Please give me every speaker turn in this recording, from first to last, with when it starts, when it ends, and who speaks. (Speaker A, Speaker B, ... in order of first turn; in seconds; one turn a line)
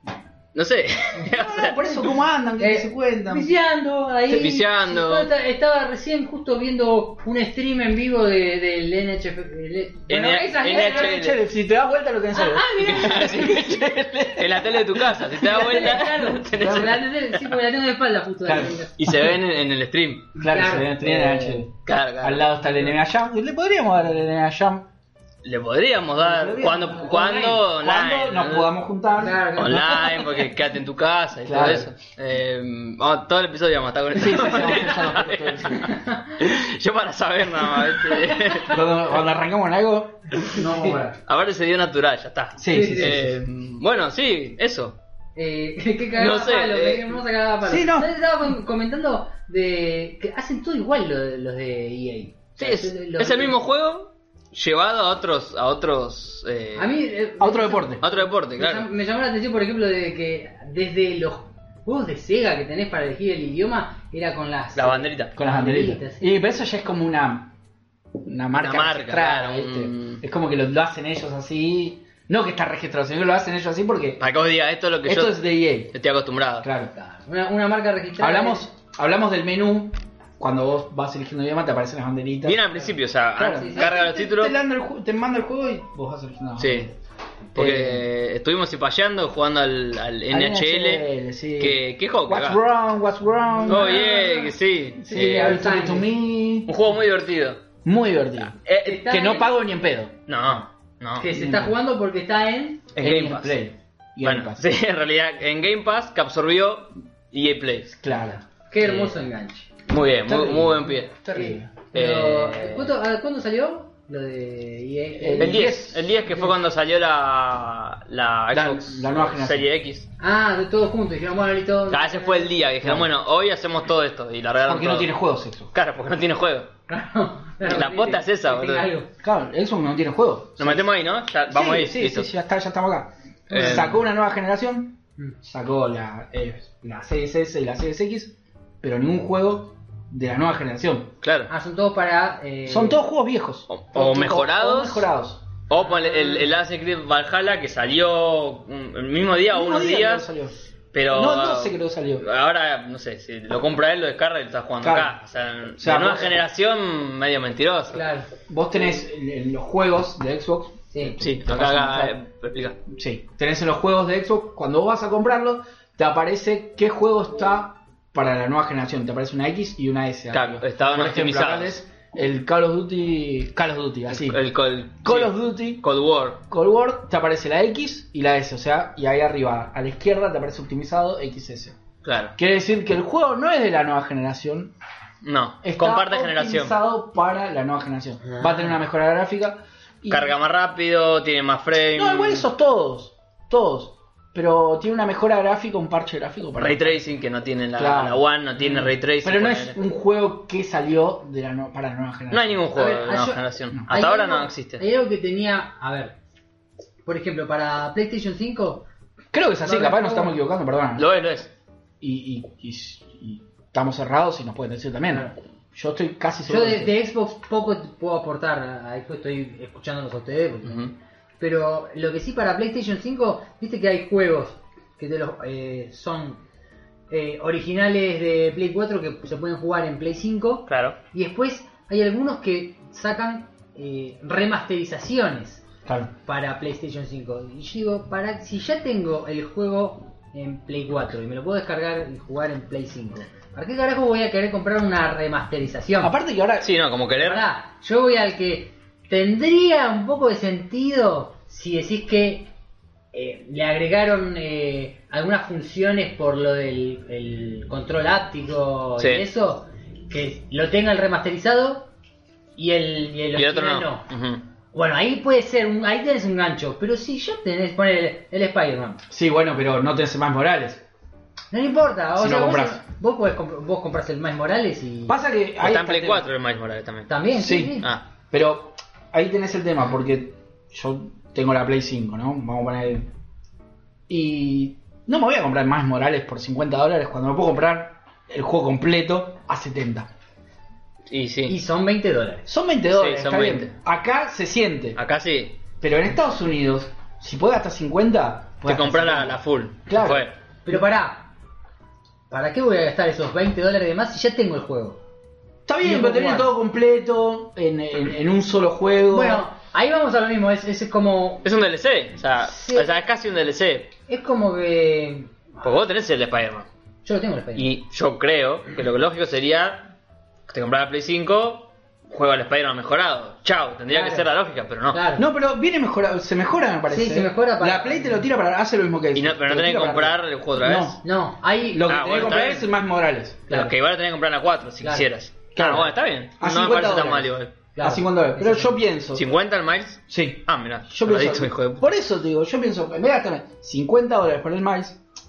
Speaker A: 0.5-2.1
Speaker B: 1.2-3.5
Speaker C: 2.6-11.2
Speaker A: 4.3-5.3
Speaker A: 10.1-11.4
Speaker B: 10.1-15.6
Speaker C: 12.3-13.6
Speaker A: 12.8-17.5
Speaker C: 15.3-18.9
Speaker B: 18.4-19.2
Speaker A: 19.0-20.3
Speaker B: 20.4-24.9
Speaker C: 20.4-21.6
Speaker A: 21.8-22.5
Speaker A: 25.4-28.7
Speaker B: 26.2-30.4
Speaker C: 29.2-30.0
Speaker A: 29.6-38.8
Speaker B: 31.4-31.9
Speaker B: 34.1-35.9
Speaker C: 35.9-36.3
Speaker C: 38.0-38.6
Speaker B: 38.6-41.2
Speaker A: 41.2-45.0
Speaker B: 42.6-43.3
Speaker C: 42.7-43.2
Speaker C: 45.4-53.6
Speaker A: 46.1-47.2
Speaker B: 47.7-48.1
Speaker A: 52.6-57.0
Speaker C: 56.8-66.3
Speaker B: 57.4-58.0
Speaker A: 58.0-58.9
Speaker A: 64.8-65.3
Speaker B: 65.3-67.5
Speaker B: 68.2-74.2
Speaker A: 68.6-70.2
Speaker A: 74.2-76.7
Speaker B: 75.0-76.0
Speaker B: 76.6-76.9
Speaker C: 76.9-78.6
Speaker B: 78.2-82.6
Speaker A: 82.4-84.5
Speaker B: 83.3-87.0
Speaker C: 83.5-83.9
Speaker A: 86.6-86.9
Speaker B: 87.5-88.0
Speaker A: 87.5-91.1
Speaker B: 90.3-94.3
Speaker A: 91.6-92.6
Speaker C: 93.5-94.5
Speaker A: 93.7-95.6
Speaker B: 95.0-96.7
Speaker C: 95.0-96.1
Speaker A: 96.7-97.6
Speaker B: 97.8-100.2
Speaker A: 98.7-99.0
Speaker C: 98.8-99.6
Speaker A: 100.3-101.3
Speaker C: 101.2-102.8
Speaker B: 101.3-101.8
Speaker A: 103.0-103.6
Speaker B: 103.0-104.6
Speaker A: 104.2-108.0
Speaker B: 108.0-108.4
Speaker C: 108.7-109.7
Speaker A: 108.8-109.2
Speaker A: 109.9-111.2
Speaker B: 110.3-111.7
Speaker C: 111.3-115.7
Speaker A: 111.9-112.9
Speaker B: 115.2-116.2
Speaker A: 115.4-120.1
Speaker B: 118.5-119.7
Speaker C: 120.2-122.5
Speaker A: 121.9-125.1
Speaker B: 122.8-123.1
Speaker B: 124.7-125.7
Speaker A: 125.7-126.7
Speaker C: 126.9-129.1
Speaker A: 127.6-128.9
Speaker B: 129.2-130.8
Speaker A: 130.6-132.3
Speaker B: 131.5-141.1
Speaker A: 133.5-134.0
Speaker A: 141.2-141.5
Speaker C: 141.5-143.0
Speaker B: 142.7-145.4
Speaker A: 143.7-145.1
Speaker A: 145.7-150.3
Speaker C: 145.7-146.5
Speaker B: 149.5-150.5
Speaker A: 150.9-158.0
Speaker B: 151.1-152.3
Speaker B: 154.8-155.1
Speaker B: 155.8-156.4
Speaker C: 157.9-158.3
Speaker B: 158.5-162.1
Speaker A: 161.2-162.8
Speaker B: 162.9-174.4
Speaker A: 170.3-171.8
Speaker A: 174.1-176.4
Speaker B: 175.0-175.8
Speaker B: 176.5-181.8
Speaker A: 182.0-182.3
Speaker B: 182.3-184.7
Speaker A: 185.2-186.8
Speaker B: 185.6-190.3
Speaker C: 188.2-188.8
Speaker A: 190.1-192.5
Speaker B: 191.9-197.0
Speaker A: 196.6-199.8
Speaker B: 197.8-202.7
Speaker A: 202.3-204.8
Speaker C: 202.7-206.2
Speaker C: 207.0-208.8
Speaker B: 209.3-211.1
Speaker C: 209.6-210.4
Speaker A: 211.0-211.5
Speaker B: 212.0-217.0
Speaker C: 216.5-226.4
Speaker A: 220.7-220.9
Speaker C: 227.1-235.6
Speaker A: 230.7-231.0
Speaker B: 235.8-236.1
Speaker C: 236.2-246.2
Speaker B: 246.0-246.7
Speaker A: 246.6-247.4
Speaker C: 247.2-252.5
Speaker C: 253.1-261.9
Speaker A: 259.0-259.2
Speaker C: 262.6-264.1
Speaker A: 263.4-264.4
Speaker C: 264.7-269.0
Speaker B: 269.1-270.8
Speaker C: 271.5-275.2
Speaker B: 272.1-272.8
Speaker B: 275.1-276.2
Speaker A: 275.6-277.1
Speaker C: 277.1-277.9
Speaker B: 277.4-277.8
Speaker B: 278.3-283.1
Speaker B: 284.1-290.1
Speaker A: 291.1-291.6
Speaker C: 291.5-292.5
Speaker B: 292.5-295.0
Speaker A: 292.9-293.7
Speaker A: 295.0-295.6
Speaker B: 295.8-300.8
Speaker A: 298.6-300.4
Speaker C: 300.6-301.3
Speaker C: 302.3-305.0
Speaker B: 305.7-309.4
Speaker C: 305.8-306.5
Speaker C: 309.1-311.4
Speaker A: 311.4-313.9
Speaker C: 312.4-313.0
Speaker C: 314.1-315.7
Speaker A: 315.6-316.7
Speaker C: 317.1-317.8
Speaker A: 317.6-319.9
Speaker A: 320.5-325.0
Speaker C: 323.9-324.3
Speaker C: 324.9-325.2
Speaker B: 325.2-331.0
Speaker C: 326.9-328.2
Speaker A: 329.1-331.0
Speaker C: 331.0-332.0
Speaker B: 331.6-333.7
Speaker A: 331.9-332.7
Speaker A: 333.5-337.5
Speaker C: 334.8-335.1
Speaker B: 335.6-339.2
Speaker C: 337.8-338.8
Speaker A: 339.1-341.9
Speaker B: 340.1-345.0